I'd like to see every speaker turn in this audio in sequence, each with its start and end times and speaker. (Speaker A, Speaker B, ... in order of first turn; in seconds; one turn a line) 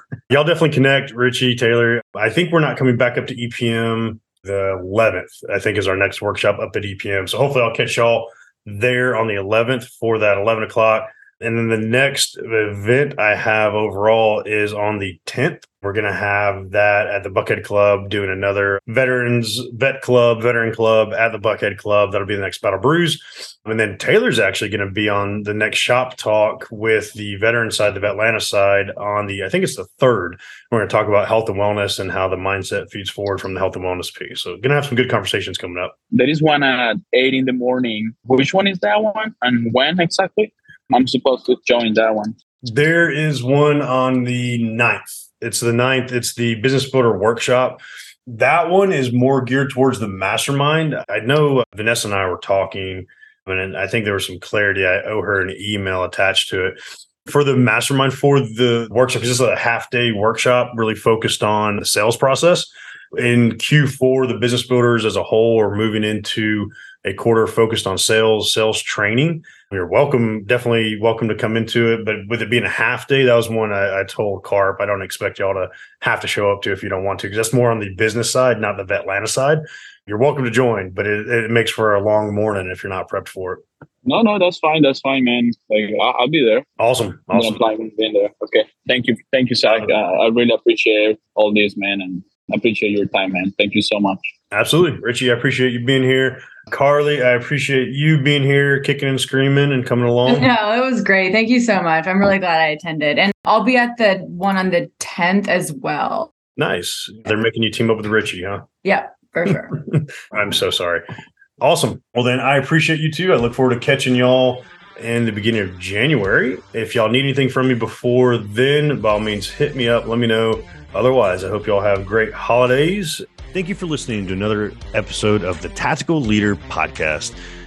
Speaker A: 0.3-35.9
Speaker B: 36.1-42.3
Speaker A: 42.7-83.6
Speaker B: 84.0-86.7
Speaker A: 86.8-87.6
Speaker B: 87.3-94.3
Speaker A: 94.5-100.5
Speaker C: 100.2-106.3
Speaker A: 106.6-108.7
Speaker C: 108.8-109.8
Speaker A: 109.9-111.0
Speaker A: 111.6-127.3